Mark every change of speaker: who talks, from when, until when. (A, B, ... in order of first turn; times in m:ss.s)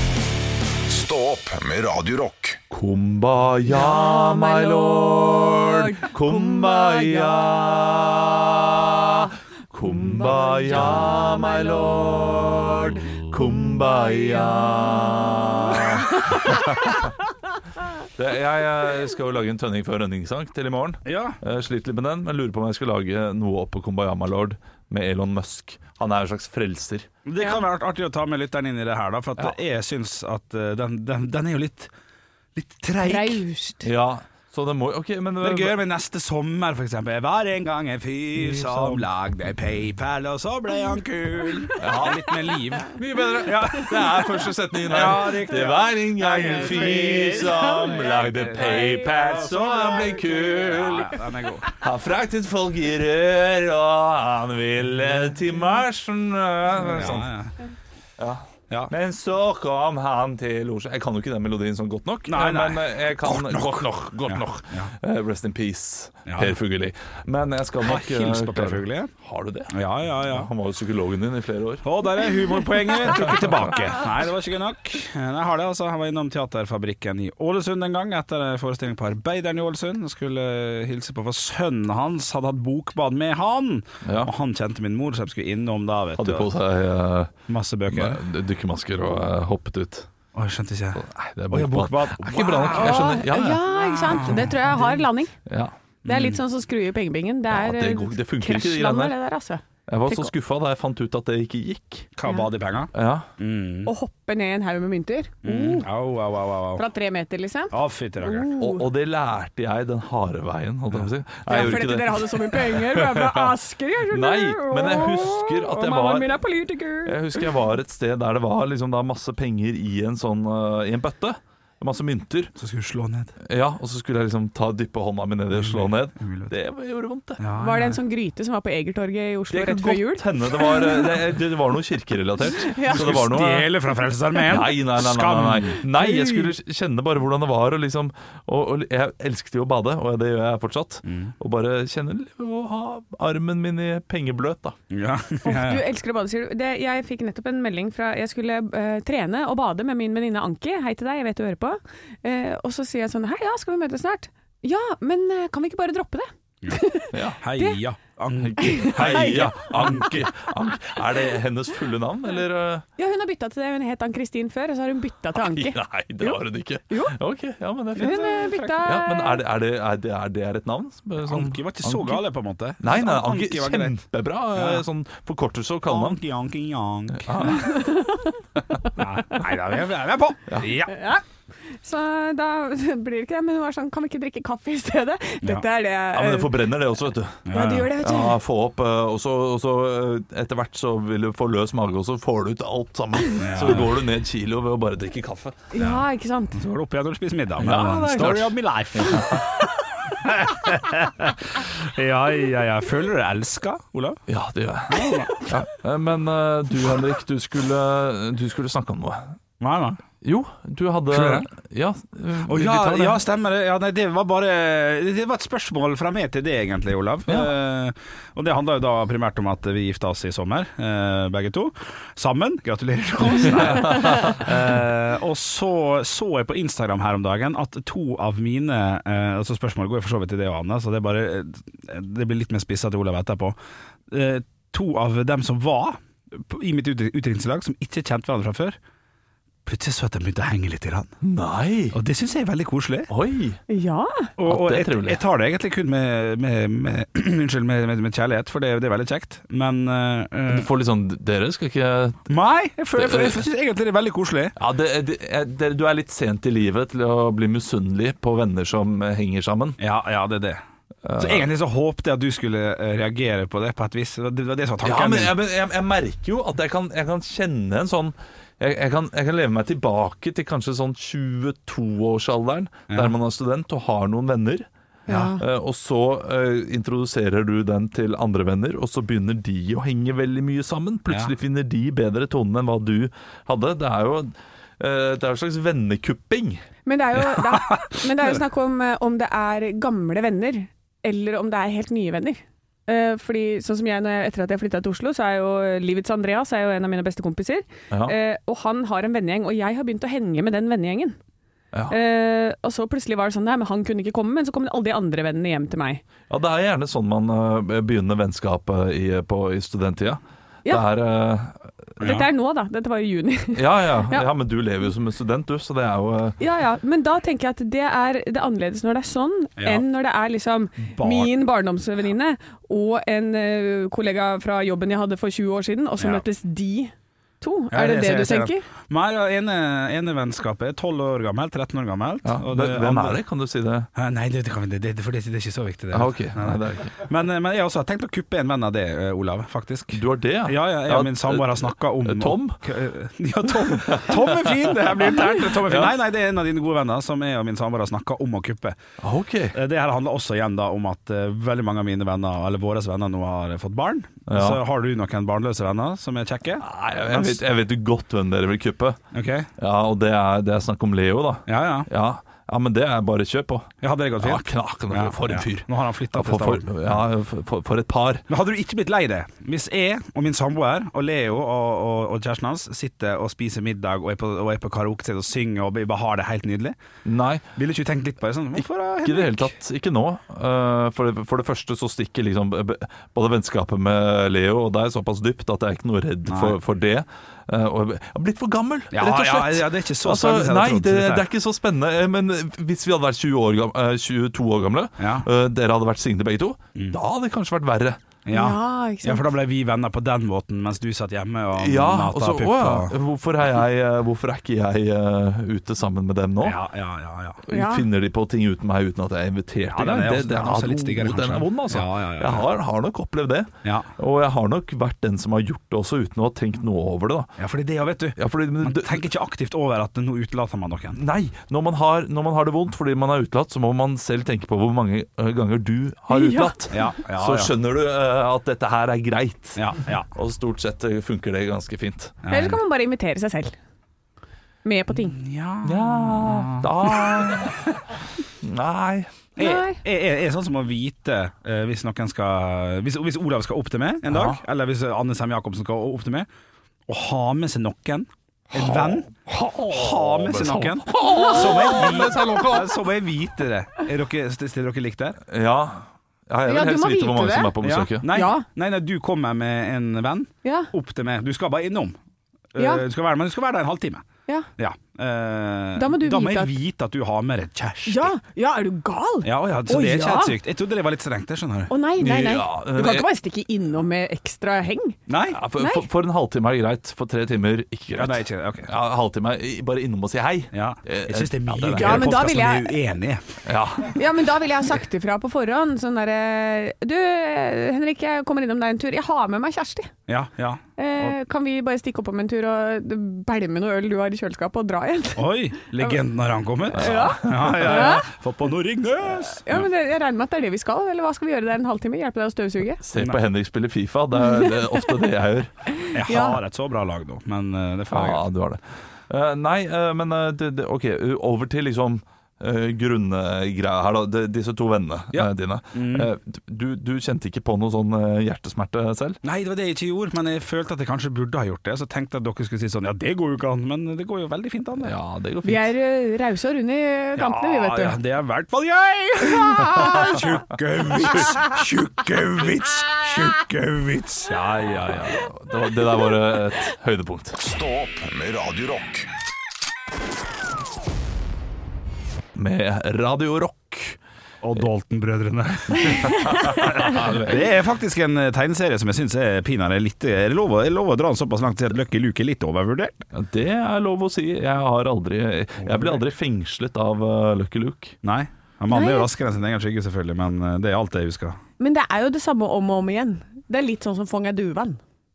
0:00.9-0:02.6 A
0:02.7-0:17.1 B
0:03.7-0:07.4 C
0:09.9-0:13.0 C
0:13.9-0:16.6 C
0:18.2-0:27.1 B
0:21.0-0:21.4 D
0:27.3-0:31.9 D
0:32.6-0:33.4 D
0:33.0-0:33.9 C
0:33.8-0:35.8 B
0:35.4-0:51.7 D
0:38.4-0:39.1 B
0:41.8-0:42.3 B
0:42.9-0:51.2 B
0:46.4-0:48.2 C
0:48.8-0:49.0 C
0:51.7-0:57.3 B
0:56.7-0:57.5 D
0:58.2-1:11.9 B
1:02.3-1:04.9 D
1:06.3-1:06.6 D
1:07.8-1:09.1 D
1:09.7-1:10.5 D
1:11.8-1:26.5 D
1:13.0-1:13.9 B
1:24.0-1:24.3 B
1:26.2-1:27.4 B
1:27.5-1:28.2 D
1:27.9-1:30.1 B
1:30.3-1:34.6 D
1:31.0-1:34.5 B
1:32.7-1:35.3 C
1:35.5-1:35.7 B
1:36.1-1:36.4 D
1:36.1-1:40.3 C
1:37.5-1:39.2 B
1:39.9-1:42.1 B
1:42.2-1:43.9 D
1:43.0-1:43.3 B
1:43.8-1:45.9 C
1:45.4-1:46.8 D
1:46.8-1:48.8 C
1:47.7-1:48.5 D
1:48.6-1:53.5 B
1:51.5-1:57.5 C
1:54.1-1:56.4 B
1:57.0-2:02.5 B
2:02.6-2:03.4 D
2:03.4-2:07.4 B
2:05.5-2:06.5 D
2:07.4-2:08.0 D
2:07.6-2:11.2 C
2:09.5-2:13.7 B
2:12.5-2:13.1 C
2:12.9-2:15.8 D
2:14.5-2:24.8 B
2:16.0-2:16.5 C
2:21.1-2:21.3 D
2:24.9-2:25.8 D
2:25.4-2:37.8 C
2:37.1-2:37.4 B
2:37.4-2:40.3 D
2:38.4-2:42.8 B
2:38.6-2:40.2 C
2:43.0-2:47.2 C
2:45.4-2:52.2 B
2:48.0-2:49.4 C
2:48.0-2:48.7 D
2:51.2-2:54.0 D
2:52.8-2:56.2 B
2:54.6-2:54.8 D
2:55.9-2:57.6 D
2:57.2-2:57.8 B
2:57.6-2:58.4 C
2:59.0-3:01.0 D
3:00.8-3:06.6 C
3:06.1-3:07.5 B
3:07.5-3:07.9 D
3:07.5-3:08.4 C
3:08.0-3:15.6 B
3:13.4-3:13.9 D
3:15.7-3:16.6 C
3:15.8-3:19.5 D
3:17.6-3:19.4 B
3:20.1-3:24.2 D
3:24.3-3:29.4 B
3:24.9-3:25.4 D
3:29.6-3:30.0 D
3:30.2-3:33.2 B
3:31.1-3:31.5 D
3:32.4-3:53.6 D
3:43.9-3:44.4 B
3:54.1-3:58.8 D
3:59.6-4:01.2 D
4:01.2-4:02.0 B
4:01.9-4:03.1 D
4:03.1-4:03.6 B
4:03.7-4:04.3 C
4:04.4-4:10.7 D
4:04.5-4:05.2 B
4:10.5-4:12.3 B
4:12.3-4:14.6 D
4:13.0-4:13.4 B
4:14.6-4:19.8 B
4:19.8-4:20.6 D
4:21.0-4:21.5 B
4:21.2-4:25.3 D
4:24.8-4:34.7 B
4:35.1-4:35.4 D
4:35.1-4:35.4 C
4:35.4-4:46.6 B
4:46.9-5:01.2 C
4:47.4-4:47.7 D
5:01.9-5:06.0 C
5:06.3-5:12.3 B
5:12.0-5:14.3 C
5:13.5-5:16.4 B
5:16.4-5:28.7 C
5:19.6-5:19.8 D
5:21.0-5:21.3 D
5:26.0-5:26.2 D
5:27.7-5:33.2 D
5:32.2-5:33.9 B
5:34.0-5:48.8 D
5:35.9-5:37.0 B
5:39.9-5:42.6 B
5:43.6-5:45.9 B
5:49.0-5:49.6 B
5:49.5-5:57.4 D
5:54.3-5:54.6 B
5:56.6-5:59.0 B
5:59.1-5:59.5 D
5:59.6-6:08.2 B
6:01.5-6:01.9 D
6:03.8-6:07.0 D
6:08.3-6:16.8 D
6:17.0-6:17.5 B
6:17.6-6:19.6 D
6:19.0-6:38.1 B
6:26.3-6:26.6 D
6:28.9-6:31.2 D
6:35.0-6:35.3 D
6:38.2-6:43.0 D
6:38.3-6:39.3 C
6:41.6-6:46.6 B
6:46.4-6:47.4 D
6:47.5-6:57.4 B
6:47.5-6:47.9 C
6:49.7-6:52.5 D
6:53.6-6:53.9 D
6:57.4-7:01.0 D
6:58.2-6:59.0 B
7:01.0-7:12.2 B
7:06.1-7:06.6 C
7:06.7-7:07.5 D
7:09.6-7:10.1 D
7:12.2-7:12.6 D
7:12.3-7:13.6 C
7:14.6-7:15.2 C
7:15.0-7:17.6 D
7:15.6-7:17.8 B
7:18.4-7:19.2 B
7:19.4-7:26.3 D
7:19.4-7:19.8 C
7:24.1-7:24.4 B
7:26.9-7:29.1 D
7:28.5-7:32.8 B
7:29.7-7:35.2 D
7:31.0-7:31.8 C
7:35.3-7:38.1 B
7:36.5-7:37.5 C
7:37.6-7:42.0 D
7:38.1-7:38.5 C
7:40.4-7:40.7 C
7:42.5-7:48.1 D
7:42.6-7:42.8 C
7:45.8-7:46.6 C
7:47.9-7:50.4 C
7:49.2-7:51.7 D
7:51.7-7:55.0 C
7:52.0-7:53.1 B
7:55.1-7:55.4 D
7:55.3-8:02.2 B
7:55.6-7:55.9 C
7:58.0-7:58.7 D
8:00.5-8:03.2 D
8:01.7-8:02.8 C
8:03.4-8:04.0 B
8:03.9-8:09.9 C
8:10.1-8:11.2 D
8:10.8-8:16.0 C
8:15.2-8:19.5 D
8:16.7-8:18.1 C
8:16.8-8:17.7 B
8:19.3-8:22.8 C
8:22.8-8:25.5 B
8:25.8-8:26.4 C
8:25.9-8:28.2 D
8:27.9-8:39.2 B
8:35.1-8:36.1 D
8:39.2-8:45.0 D
8:44.8-8:45.7 B
8:45.4-8:48.0 C
8:47.2-8:55.2 D
8:49.2-8:50.2 C
8:54.8-8:57.4 B
8:57.4-8:59.1 A
9:02.4-9:04.0 B
9:04.4-9:13.1 D
9:05.8-9:07.5 B
9:13.1-9:18.0 B
9:15.6-9:16.0 D
9:18.0-9:21.4 D
9:18.7-9:19.1 C
9:21.6-9:24.8 C